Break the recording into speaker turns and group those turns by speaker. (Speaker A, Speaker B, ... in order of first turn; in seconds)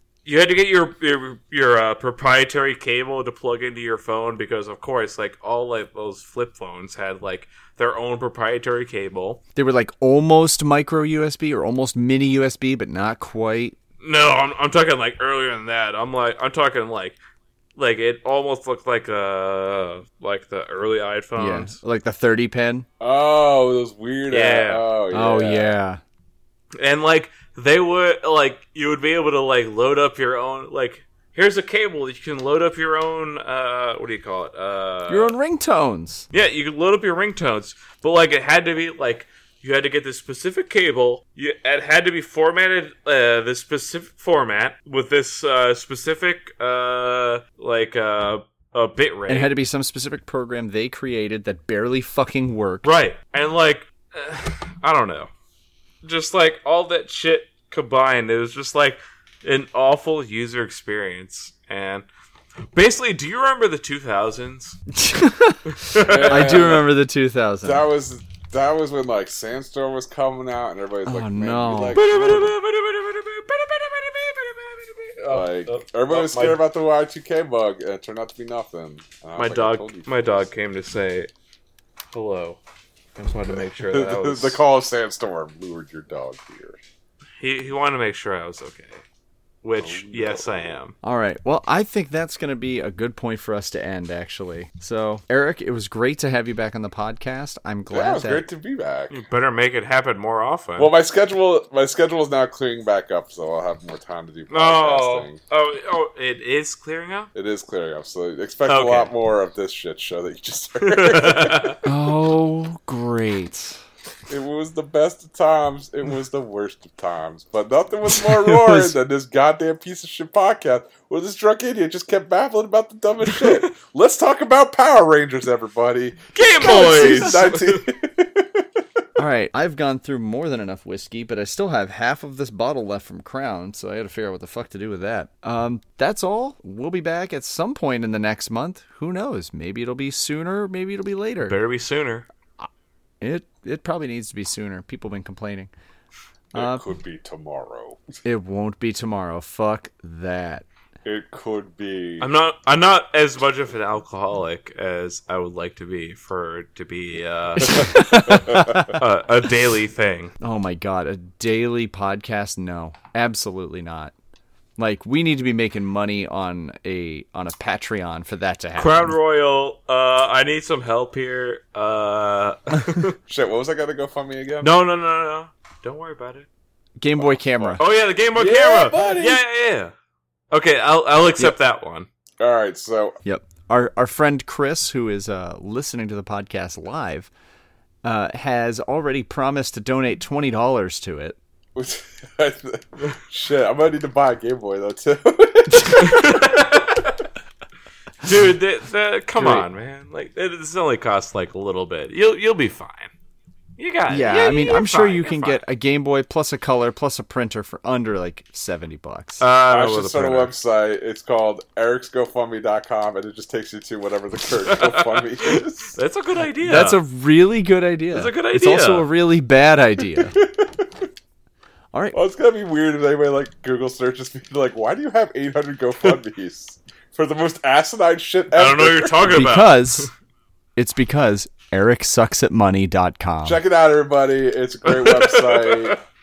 Speaker A: 0.2-9.4, 14.0-17.2, 17.8-21.8, 24.3-24.9, 26.8-35.3, 36.3-49.5, 52.8-55.3, 56.0-62.1, 62.7-64.8, 65.7-66.8, 72.0-76.6, 79.4-81.3, 82.1-82.6, 83.2-84.6, 87.4-89.0, 89.6-91.0, 99.1-100.9, 104.5-107.3, 108.7-109.1, 110.8-111.8, 123.4-123.7, 126.3-127.9, 141.4-142.3, 152.2-160.3, 168.8-173.2, 174.6-176.5, 177.8-179.9, 180.5-182.1, 196.0-197.2, 198.2-203.1, 203.8-205.6, 209.4-210.5, 214.7-217.0, 218.1-219.1, 228.6-230.1, 234.8-236.0
Speaker B: 9.6-13.8, 21.4-22.9, 25.1-26.0, 35.1-36.3, 49.3-52.9, 64.9-67.8, 71.0-72.0, 91.0-98.4, 111.8-113.8, 118.1-119.0, 126.6-127.4, 129.2-141.6, 143.2-145.7, 146.6-146.8, 148.2-150.7, 157.6-158.9, 160.4-164.1, 164.8-169.2, 177.0-177.8, 183.2-187.3, 188.0-191.4, 199.4-199.7, 204.1-209.4, 216.6-220.3, 221.9-222.2, 229.3-230.1, 230.8-233.6
Speaker C: 23.0-25.8, 66.0-66.9, 67.6-72.5, 75.3-80.5, 83.5-86.8, 89.8-90.8, 97.9-99.2, 100.8-105.4, 107.3-111.8, 114.3-128.8, 146.5-148.2, 151.1-152.3, 157.6-159.0, 173.3-174.7, 177.2-177.8, 178.3-179.4, 182.4-183.2, 191.8-196.8, 209.7-216.0, 220.3-221.1, 222.1-229.2, 233.4-236.0